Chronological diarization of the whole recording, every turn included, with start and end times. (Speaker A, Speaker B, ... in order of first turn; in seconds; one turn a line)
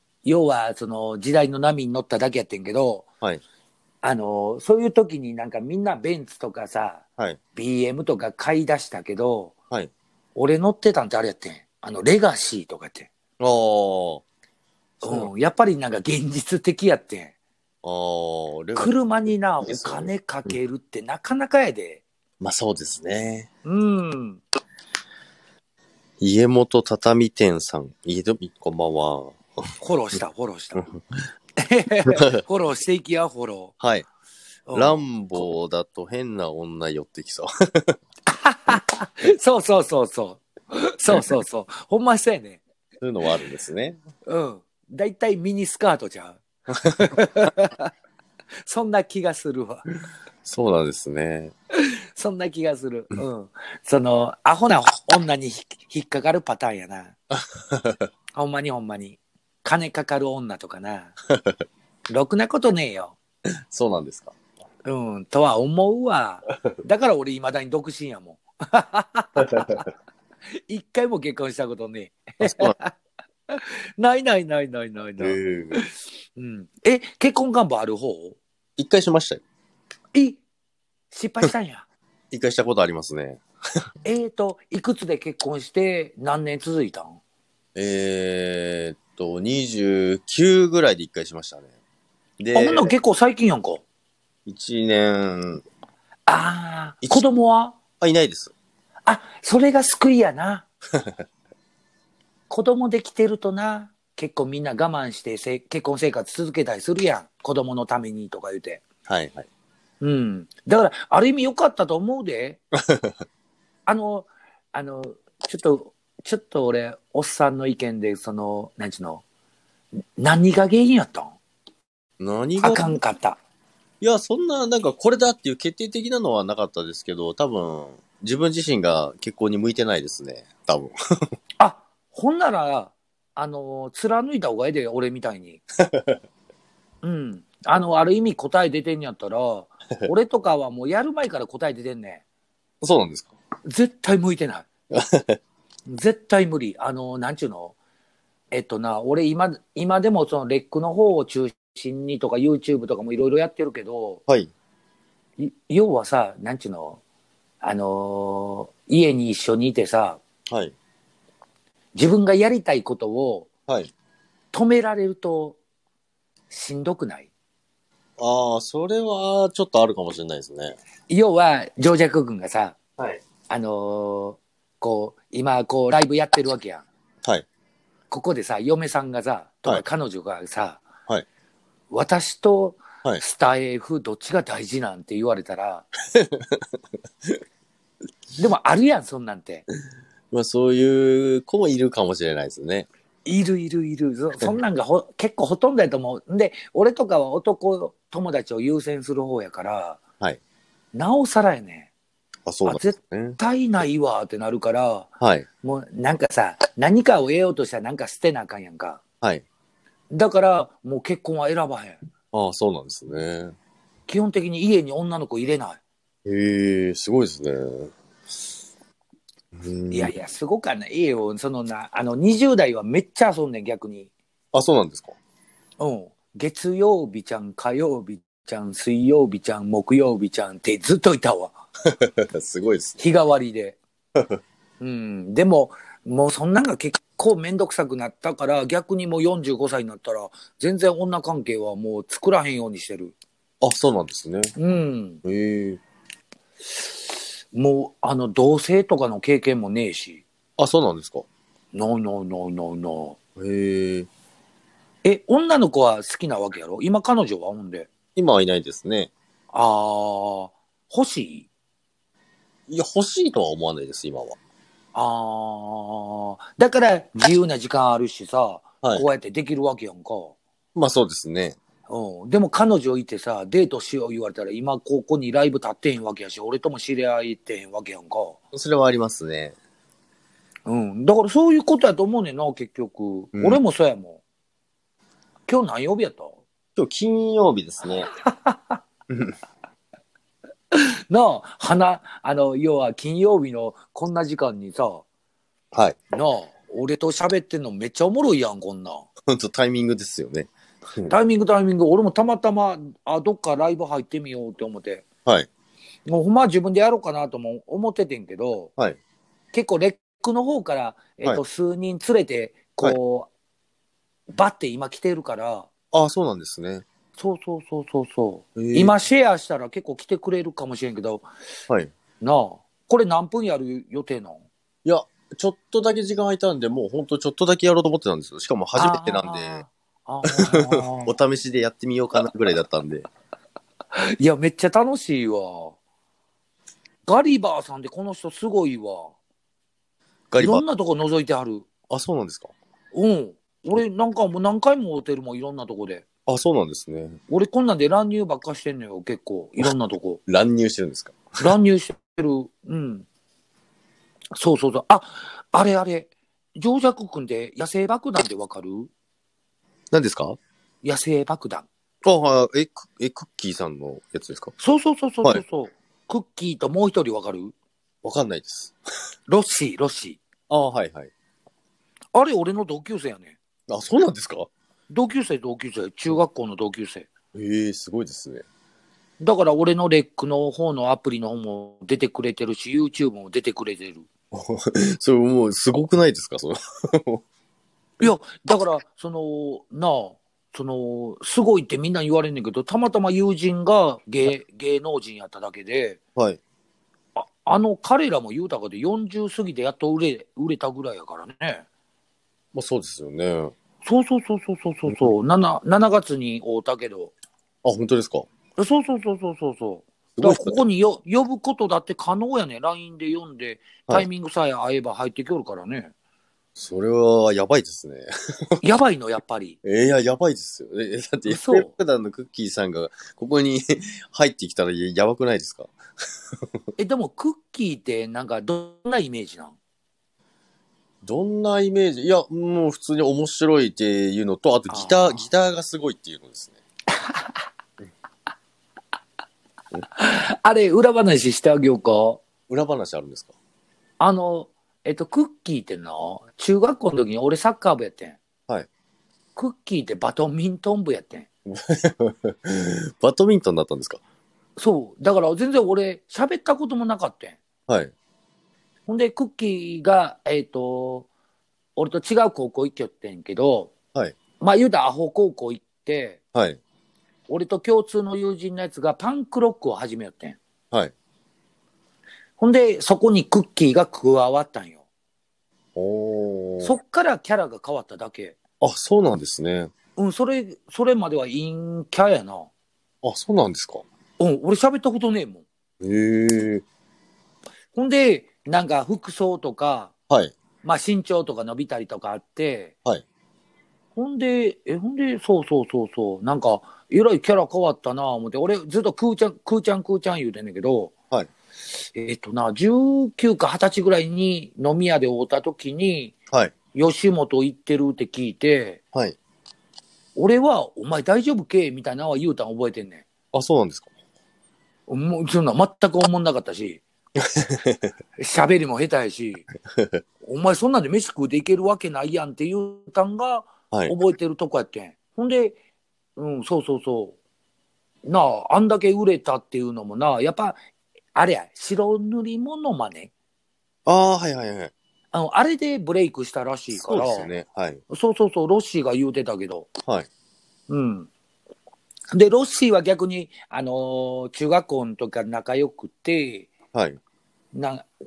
Speaker A: 0.2-3.1
Speaker A: 4.0-7.0
Speaker A: 7.5-9.5
Speaker A: 10.3-13.1
Speaker B: 13.4-14.2
Speaker B: 15.0-15.3
Speaker A: 15.0-17.3
Speaker B: 17.8-19.0
Speaker A: 18.8-22.0
Speaker B: 19.6-20.5
Speaker B: 22.4-23.5
Speaker A: 23.6-24.4
Speaker B: 26.2-29.6
Speaker A: 29.8-30.9
Speaker A: 31.6-33.7
Speaker B: 32.1-32.4
Speaker B: 33.8-34.1
Speaker A: 34.7-35.0
Speaker B: 34.7-38.0
Speaker A: 38.3-42.6
Speaker B: 43.0-44.0
Speaker A: 44.3-47.9
Speaker A: 48.6-49.9
Speaker B: 50.5-51.5
Speaker A: 51.8-57.2
Speaker B: 57.3-58.1
Speaker A: 58.4-61.1
Speaker B: 61.3-61.6
Speaker A: 62.1-63.2
Speaker B: 63.7-64.3
Speaker A: 64.8-69.9
Speaker B: 69.4-69.8
Speaker A: 70.6-73.0
Speaker B: 72.4-72.8
Speaker A: 73.5-78.4
Speaker B: 75.2-75.8
Speaker B: 78.8-79.4
Speaker A: 80.1-80.4
Speaker A: 81.1-81.9
Speaker B: 82.3-83.4
Speaker A: 84.0-87.2
Speaker B: 87.8-91.7
Speaker B: 92.4-92.9
Speaker A: 92.5-93.8
Speaker B: 94.5-95.6
Speaker A: 96.3-97.8
Speaker B: 98.0-98.5
Speaker A: 99.1-100.7
Speaker A: 102.5-108.8
Speaker B: 109.1-109.5
Speaker A: 110.0-112.6
Speaker B: 112.9-113.1
Speaker A: 113.9-119.2
Speaker A: 120.2-121.4
Speaker B: 122.2-122.9
Speaker A: 122.6-123.4
Speaker B: 124.0-130.9
Speaker A: 131.6-135.6
Speaker B: 135.9-136.2
Speaker A: 137.0-142.2
Speaker B: 142.8-143.3
Speaker A: 143.7-144.7
Speaker B: 144.9-145.4
Speaker A: 145.9-147.8
Speaker A: 148.5-154.2
Speaker A: 155.4-157.0
Speaker A: 157.6-160.2
Speaker B: 160.5-160.8
Speaker A: 161.9-163.5
Speaker A: 164.5-165.6
Speaker A: 166.5-167.3
Speaker B: 168.2-170.8
Speaker A: 171.1-172.8
Speaker A: 173.5-176.9
Speaker A: 178.1-180.8
Speaker A: 181.9-185.9
Speaker B: 186.1-186.7
Speaker A: 188.4-189.7
Speaker B: 190.3-192.9
Speaker A: 193.2-200.0
Speaker A: 200.9-201.9
Speaker B: 202.5-203.4
Speaker A: 202.7-205.1
Speaker B: 205.2-205.5
Speaker A: 205.6-209.0
Speaker A: 210.1-212.0
Speaker B: 212.3-213.6
Speaker A: 214.1-215.8
Speaker B: 216.2-217.9
Speaker B: 219.5-220.1
Speaker A: 219.9-224.1
Speaker B: 224.5-225.2
Speaker A: 225.8-231.6
Speaker B: 231.9-233.0
Speaker A: 233.0-233.8
Speaker A: 234.8-243.2
Speaker B: 243.6-244.5
Speaker A: 244.6-245.2
Speaker B: 245.2-245.8
Speaker A: 247.5-250.2
Speaker B: 250.6-251.3
Speaker A: 251.7-253.2
Speaker B: 253.4-254.1
Speaker A: 255.0-257.9
Speaker B: 258.2-259.1
Speaker A: 259.5-261.5
Speaker B: 262.7-264.4
Speaker A: 264.9-270.4
Speaker B: 270.8-271.6
Speaker A: 271.9-278.4
Speaker B: 278.5-279.6
Speaker A: 280.7-284.2
Speaker B: 283.3-283.6
Speaker A: 285.5-286.4
Speaker B: 286.8-288.1
Speaker A: 288.2-288.8
Speaker B: 289.1-289.4
Speaker A: 290.7-295.1
Speaker B: 295.7-296.0
Speaker A: 296.1-299.1
Speaker B: 299.3-301.1
Speaker A: 301.1-305.1
Speaker A: 306.1-308.7
Speaker A: 309.5-313.3
Speaker A: 314.3-315.7
Speaker B: 315.9-316.9
Speaker A: 317.2-321.3
Speaker B: 318.6-318.9
Speaker A: 322.2-324.4
Speaker B: 324.9-329.6
Speaker A: 328.8-331.1
Speaker B: 330.3-333.1
Speaker A: 333.9-335.8
Speaker A: 337.1-339.1
Speaker B: 340.3-340.6
Speaker A: 340.4-341.7
Speaker B: 341.9-342.5
Speaker A: 342.9-346.1
Speaker B: 346.3-347.2
Speaker A: 347.3-350.2
Speaker B: 350.3-351.2
Speaker A: 351.4-353.1
Speaker A: 354.4-358.9
Speaker B: 359.9-360.4
Speaker A: 360.8-361.7
Speaker B: 362.0-364.6
Speaker A: 364.6-367.6
Speaker B: 368.0-368.8
Speaker A: 369.3-370.2
Speaker B: 370.5-371.1
Speaker A: 372.1-373.4
Speaker B: 373.7-374.5
Speaker A: 374.9-377.1
Speaker B: 377.3-378.4
Speaker A: 379.2-384.1
Speaker B: 384.3-387.2
Speaker A: 388.0-396.0
Speaker A: 397.2-401.6
Speaker B: 402.5-403.5
Speaker A: 403.8-407.1
Speaker B: 407.6-408.3
Speaker A: 408.6-415.9
Speaker B: 410.2-410.6
Speaker B: 416.6-418.6
Speaker A: 418.6-419.6
Speaker B: 419.6-425.7
Speaker A: 421.3-421.7
Speaker A: 426.8-429.6
Speaker B: 431.0-436.6
Speaker A: 434.7-435.3
Speaker A: 439.9-442.2
Speaker B: 442.5-443.3
Speaker A: 444.0-448.2
Speaker A: 449.4-451.3
Speaker B: 451.5-454.0
Speaker A: 454.6-457.4
Speaker B: 457.7-457.9
Speaker A: 458.9-461.1
Speaker A: 461.8-463.7
Speaker A: 464.4-466.2
Speaker B: 466.3-466.6
Speaker A: 467.3-470.4
Speaker A: 472.4-474.8
Speaker B: 475.8-476.7
Speaker A: 476.6-478.4
Speaker B: 478.6-479.7
Speaker A: 480.0-482.5
Speaker B: 483.0-483.8
Speaker A: 484.2-485.4
Speaker B: 485.8-486.6
Speaker A: 487.8-489.9
Speaker A: 490.6-492.7
Speaker A: 493.9-500.9
Speaker A: 501.9-506.2
Speaker A: 506.7-508.8
Speaker A: 510.2-513.0
Speaker B: 513.3-513.9
Speaker A: 514.9-516.8
Speaker B: 517.2-517.9
Speaker A: 518.2-519.5
Speaker A: 520.2-525.6
Speaker A: 526.2-527.2
Speaker A: 528.0-530.6
Speaker A: 531.1-533.1
Speaker B: 533.9-534.7
Speaker A: 535.1-537.3
Speaker B: 536.7-537.8
Speaker A: 537.9-539.7
Speaker A: 540.7-541.1
Speaker A: 542.1-546.5
Speaker B: 546.7-547.0
Speaker A: 547.5-547.9